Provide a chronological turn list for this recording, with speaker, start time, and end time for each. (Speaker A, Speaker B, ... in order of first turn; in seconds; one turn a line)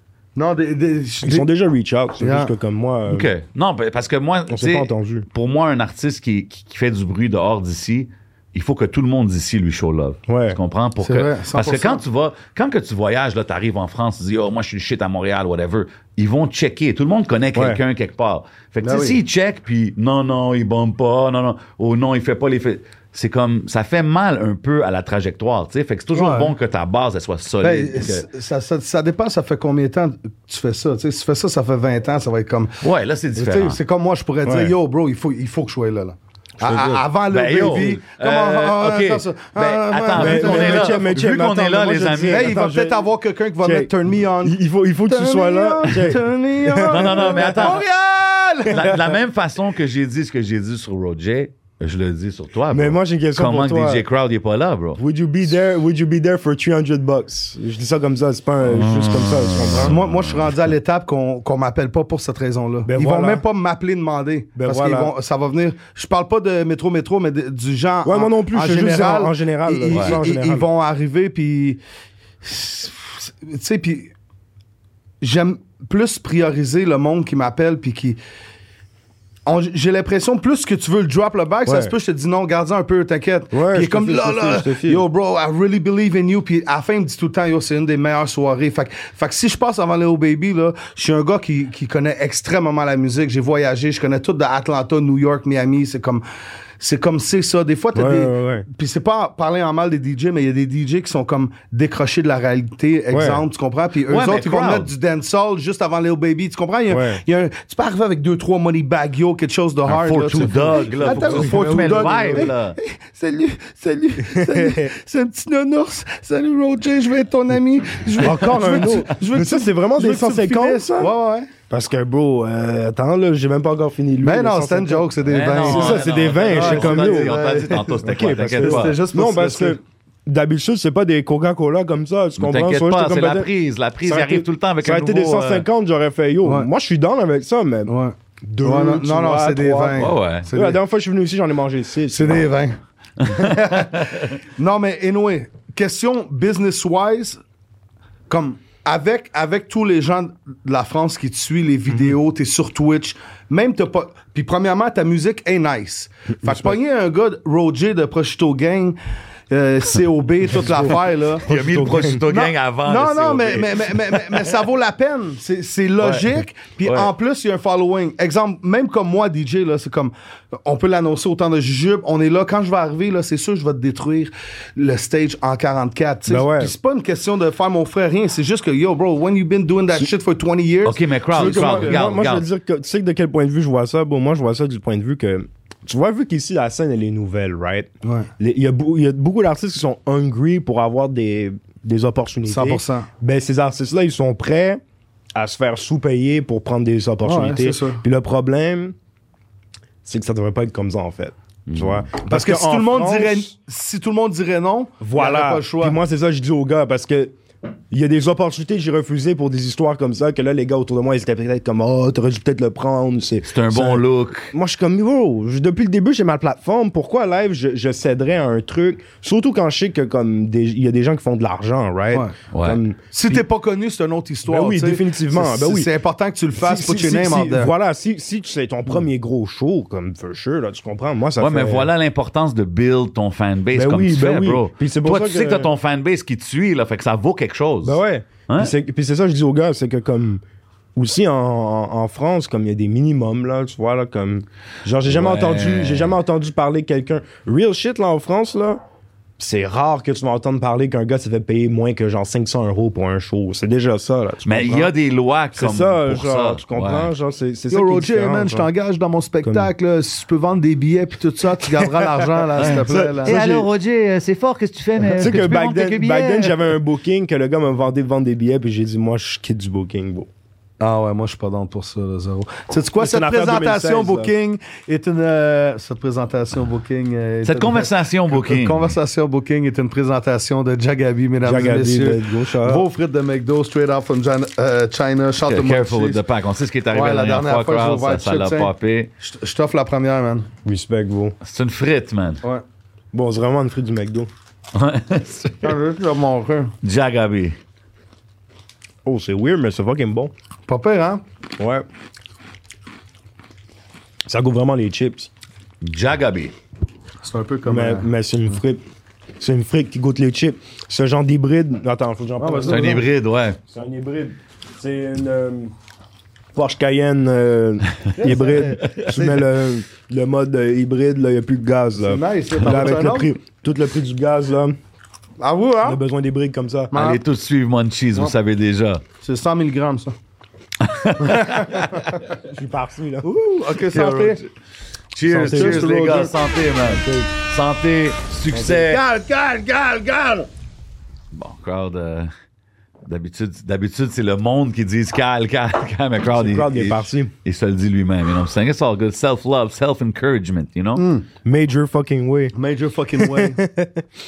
Speaker A: 0.3-1.5
Speaker B: 1.2-3.3
Speaker A: 2.2-2.5
Speaker C: 3.1-28.3
Speaker B: 4.5-5.3
Speaker B: 10.3-10.6
Speaker A: 11.0-12.0
Speaker B: 17.5-17.8
Speaker A: 18.8-19.2
Speaker A: 26.1-26.5
Speaker A: 27.6-32.8
Speaker C: 32.8-33.8
Speaker A: 33.3-41.1
Speaker B: 34.4-34.7
Speaker B: 36.6-37.0
Speaker C: 37.3-42.5
Speaker B: 40.1-43.0
Speaker A: 42.3-49.0
Speaker B: 43.6-47.7
Speaker C: 46.9-47.8
Speaker C: 48.6-55.0
Speaker B: 48.7-49.0
Speaker B: 52.7-54.0
Speaker B: 55.0-59.9
Speaker C: 58.6-60.5
Speaker A: 59.8-71.8
Speaker B: 62.9-63.4
Speaker B: 64.5-65.1
Speaker B: 68.0-70.7
Speaker C: 69.9-70.2
Speaker A: 72.4-74.1
Speaker A: 75.2-78.2
Speaker A: 79.5-96.2
Speaker B: 81.7-81.9
Speaker B: 83.5-85.0
Speaker A: 96.8-121.5
Speaker B: 97.9-98.7
Speaker B: 103.1-103.4
Speaker C: 104.1-104.9
Speaker B: 106.9-107.2
Speaker C: 109.9-112.8
Speaker B: 110.9-112.5
Speaker B: 114.2-114.9
Speaker B: 118.2-121.1
Speaker B: 121.7-127.4
Speaker A: 124.2-128.0
Speaker C: 125.2-129.0
Speaker B: 128.0-133.5
Speaker A: 128.5-129.8
Speaker C: 132.4-135.7
Speaker B: 134.0-137.9
Speaker A: 136.4-136.7
Speaker A: 137.8-140.8
Speaker B: 138.4-142.5
Speaker C: 140.0-140.5
Speaker A: 142.1-147.4
Speaker C: 143.2-144.3
Speaker A: 148.3-159.0
Speaker B: 156.4-156.8
Speaker A: 159.5-161.4
Speaker B: 160.6-162.2
Speaker C: 161.4-164.4
Speaker A: 162.3-182.0
Speaker C: 166.0-166.3
Speaker C: 166.8-167.1
Speaker B: 176.3-176.7
Speaker C: 180.8-182.4
Speaker B: 181.3-194.8
Speaker A: 188.0-188.3
Speaker A: 192.5-193.1
Speaker B: 195.3-198.9
Speaker A: 197.2-198.0
Speaker B: 200.0-203.5
Speaker C: 201.7-202.0
Speaker A: 202.2-206.0
Speaker B: 205.0-207.3
Speaker B: 207.9-223.4
Speaker C: 213.4-214.5
Speaker C: 222.5-222.8
Speaker A: 223.1-227.7
Speaker B: 224.4-225.9
Speaker B: 226.6-231.9
Speaker C: 231.4-238.7
Speaker B: 233.7-235.7
Speaker B: 237.8-240.4
Speaker B: 240.9-248.8
Speaker C: 245.0-246.1
Speaker B: 249.4-254.9
Speaker C: 254.4-257.1
Speaker B: 255.5-258.7
Speaker A: 257.7-263.4
Speaker B: 259.4-259.7
Speaker B: 261.7-263.6
Speaker C: 262.6-266.6
Speaker B: 265.1-270.3
Speaker A: 270.8-286.2
Speaker B: 273.0-274.3
Speaker C: 277.4-278.9
Speaker B: 281.4-282.9
Speaker C: 285.4-289.1
Speaker A: 286.9-290.5
Speaker B: 290.6-291.4
Speaker C: 291.4-292.4
Speaker B: 293.1-294.3
Speaker C: 294.7-295.8
Speaker A: 295.6-296.7
Speaker C: 296.8-297.6
Speaker B: 299.0-300.3
Speaker A: 300.7-301.2
Speaker B: 301.6-301.8
Speaker B: 304.3-305.3
Speaker C: 305.8-306.5
Speaker A: 307.2-308.1
Speaker B: 307.6-308.8
Speaker B: 309.4-313.0
Speaker A: 312.4-313.0
Speaker C: 312.7-313.6
Speaker B: 313.7-315.7
Speaker B: 316.5-324.8
Speaker A: 318.2-319.5
Speaker A: 322.0-323.3
Speaker A: 325.4-326.0
Speaker B: 325.8-326.9
Speaker A: 326.9-327.2
Speaker C: 326.9-329.0
Speaker A: 329.2-330.1
Speaker C: 330.8-332.1
Speaker A: 331.2-332.0
Speaker B: 332.4-333.3
Speaker A: 333.2-334.4
Speaker C: 333.9-334.4
Speaker C: 335.1-339.0
Speaker B: 335.3-337.3
Speaker A: 335.3-336.3
Speaker B: 338.5-340.5
Speaker C: 341.3-342.3
Speaker C: 343.1-351.0
Speaker B: 346.3-347.3
Speaker A: 350.9-351.2
Speaker B: 351.4-352.5
Speaker A: 352.5-353.6
Speaker B: 353.1-354.1